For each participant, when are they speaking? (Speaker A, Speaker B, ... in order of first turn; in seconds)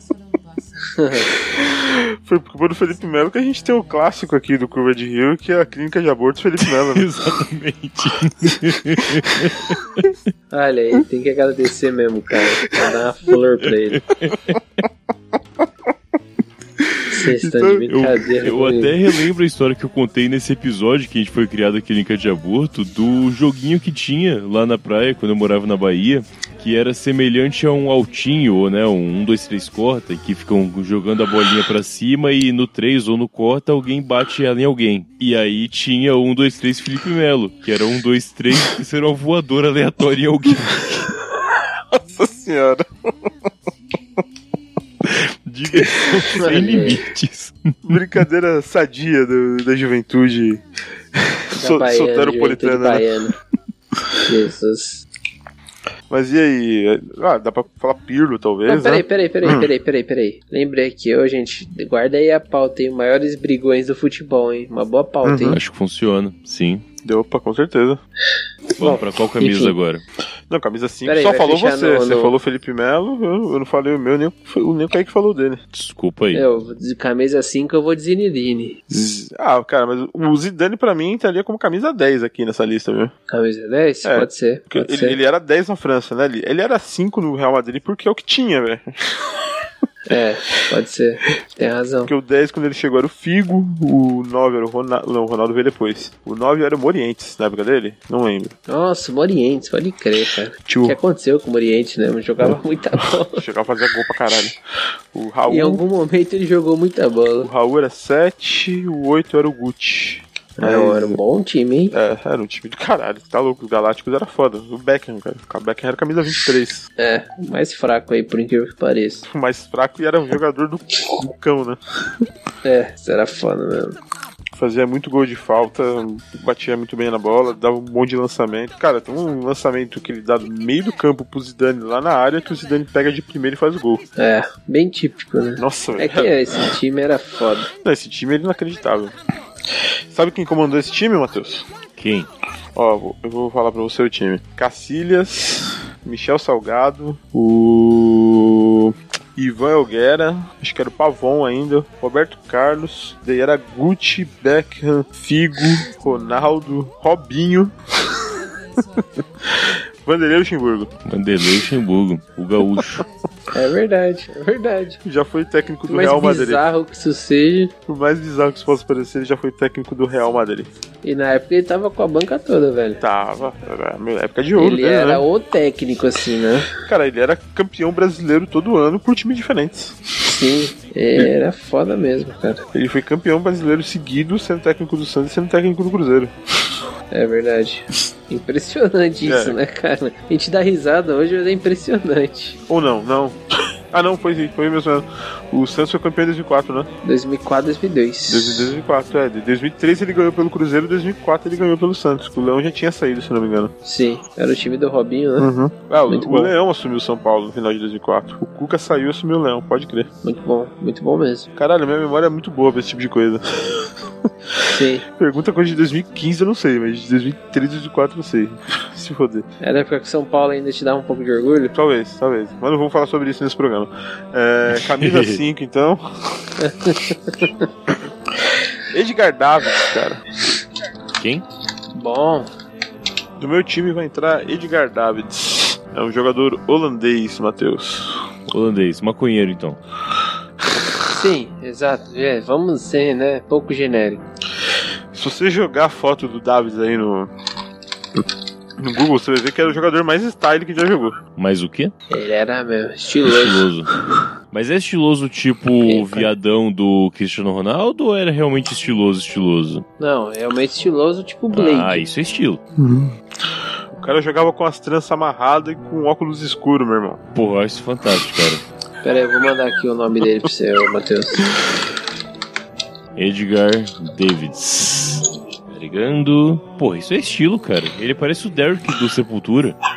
Speaker A: 0.9-1.4, 10.5-14.0, 17.1-18.9, 46.3-47.0, 51.5-53.3, 54.2-55.0, 58.7-65.6, 68.8-69.8, 71.0-72.3, 76.3-78.8, 83.3-85.2, 90.1-92.1, 98.7-103.5, 105.5-107.5, 110.6-112.0, 117.0-119.2, 122.6-124.0, 134.2-137.7, 163.5-165.0, 165.9-167.7, 171.0-173.0, 174.6-176.7, 180.3-182.6, 187.1-192.6, 197.0-198.7, 203.8-205.5, 206.1-206.5, 210.2-211.5, 214.7-215.1, 219.6-221.8, 226.6-227.7, 232.0-232.5, 241.1-244.2, 252.1-253.6, 255.8-256.3, 260.0-262.0, 269.0-271.5
Speaker B: 1.5-7.1, 16.8-17.9, 41.9-43.1, 45.7-46.4, 47.8-50.6, 51.1-53.1, 56.1-59.7, 65.2-65.6, 67.0-68.0, 70.5-75.6, 78.9-83.1, 84.0-89.3, 92.0-98.6, 100.7-101.0, 103.2-104.6, 105.1-105.8, 107.4-111.2, 111.9-116.9, 119.3-121.8, 124.5-134.0, 135.6-136.7, 137.8-139.1, 140.1-141.7, 142.8-157.7, 159.5-160.9, 165.0-166.6, 167.9-170.7, 173.0-175.2, 176.9-180.0, 182.7-186.3, 189.2-189.6, 192.7-193.4, 193.9-196.9, 198.3-203.7, 205.4-210.1, 211.6-213.9, 214.7-219.5, 221.7-226.5, 228.9-230.2, 233.4-238.2, 245.1-247.3, 248.8-251.2, 262.8-263.1, 263.9-267.2
Speaker C: 6.6-10.1, 13.9-14.6, 17.9-41.1, 45.0-48.0, 65.5-66.8, 68.8-70.0, 75.7-76.5, 142.0-142.3, 161.0-163.0, 224.7-225.4, 231.2-231.4, 238.5-239.8, 251.4-251.9, 253.2-253.9, 254.5-259.9, 261.5-262.6, 267.3-268.6, 273.1-279.8